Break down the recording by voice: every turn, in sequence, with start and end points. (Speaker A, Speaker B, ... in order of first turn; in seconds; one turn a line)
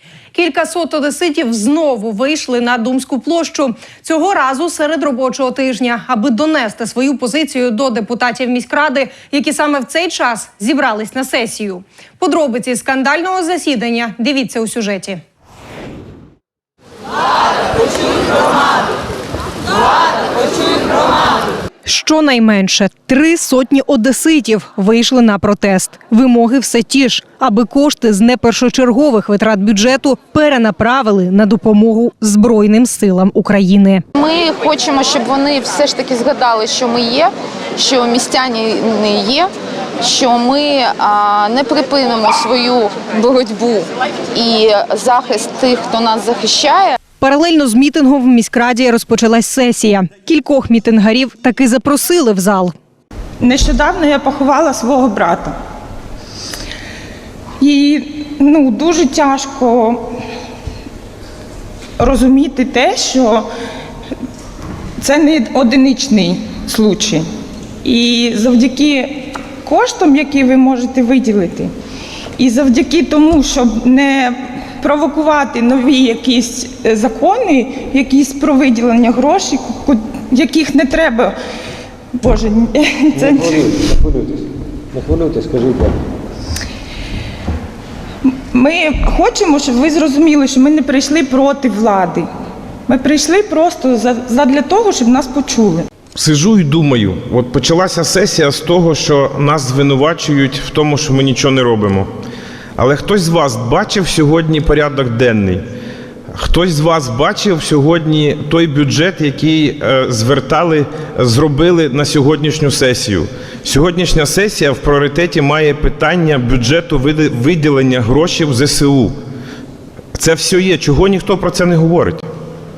Speaker A: 0.3-15.2
Speaker A: 21.8-34.0
Speaker B: 34.2-39.5
Speaker B: 40.0-47.0
Speaker A: 47.2-52.7
Speaker C: 53.4-55.5
Speaker C: 57.6-60.1
Speaker C: 62.0-63.5
Speaker C: 65.0-67.3
Speaker C: 67.8-71.7
Speaker C: 72.4-81.3
Speaker C: 82.2-83.6
Speaker D: 83.2-84.3
Speaker D: 85.0-85.9
Speaker C: 88.3-92.3
Speaker C: 92.9-95.9
Speaker E: 96.2-102.1
Speaker E: 102.8-105.6
Speaker E: 106.3-119.2
Speaker E: 120.1-122.2